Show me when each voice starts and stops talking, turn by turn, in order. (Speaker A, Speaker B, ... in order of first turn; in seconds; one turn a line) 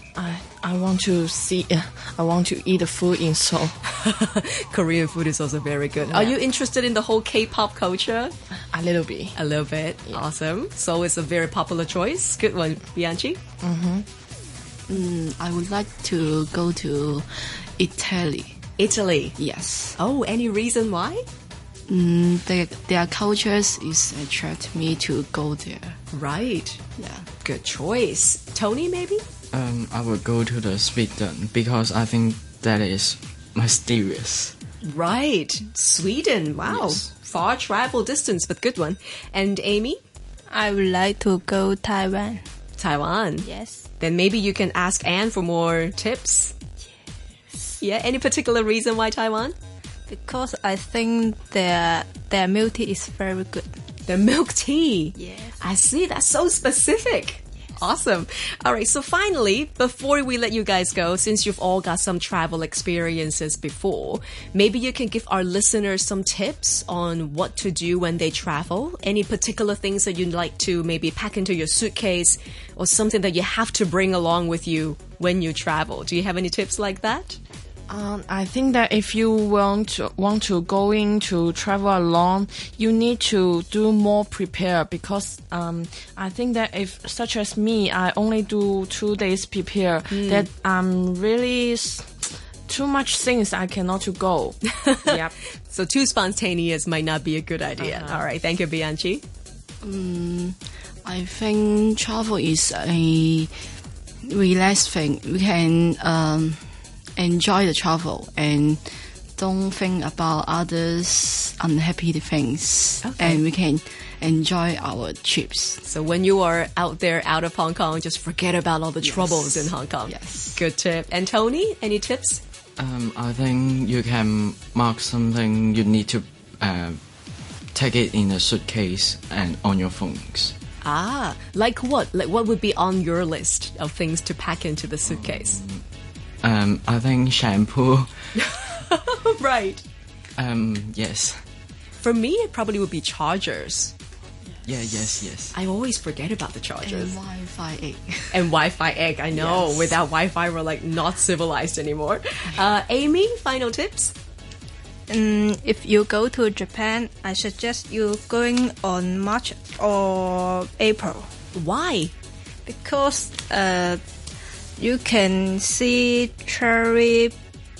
Speaker A: 0.1-3.7
Speaker B: 3.8-8.3
Speaker A: 6.0-6.3
Speaker A: 8.7-9.3
Speaker B: 9.3-13.4
Speaker A: 13.6-14.1
Speaker C: 14.9-17.2
Speaker C: 17.8-18.6
Speaker B: 18.8-19.4
Speaker C: 19.4-20.0
Speaker B: 20.0-21.2
Speaker C: 21.9-26.0
Speaker B: 26.1-26.8
Speaker C: 27.0-27.3
Speaker B: 27.4-29.2
Speaker D: 29.5-34.5
Speaker B: 34.8-40.0
Speaker D: 36.7-37.0
Speaker E: 40.5-42.4
Speaker B: 42.8-43.5
Speaker E: 43.4-43.9
Speaker B: 44.0-46.5
Speaker B: 47.8-49.5
Speaker E: 50.1-53.8
Speaker B: 54.0-77.4
Speaker E: 55.2-55.6
Speaker A: 77.9-92.1
Speaker B: 90.1-90.5
Speaker A: 92.7-95.3
Speaker B: 94.7-99.2
Speaker A: 97.8-98.2
Speaker C: 99.8-103.5
Speaker C: 104.2-106.6
Speaker C: 107.2-108.8
Speaker C: 109.4-115.8
Speaker B: 113.0-113.4
Speaker B: 115.8-122.4
Speaker C: 119.0-120.6
Speaker D: 122.8-127.0
Speaker D: 127.7-130.5
Speaker B: 130.8-135.6
Speaker D: 135.1-135.8
Speaker D: 136.4-138.1
Speaker B: 138.3-139.8
Speaker D: 140.4-141.4
Speaker B: 142.0-143.9
Speaker D: 144.6-145.5
Speaker B: 145.5-147.2
Speaker C: 146.8-148.5
Speaker B: 148.3-154.1
Speaker C: 149.3-150.0
Speaker E: 155.1-161.3
Speaker B: 161.5-162.1
Speaker E: 162.7-164.0
Speaker E: 164.8-167.3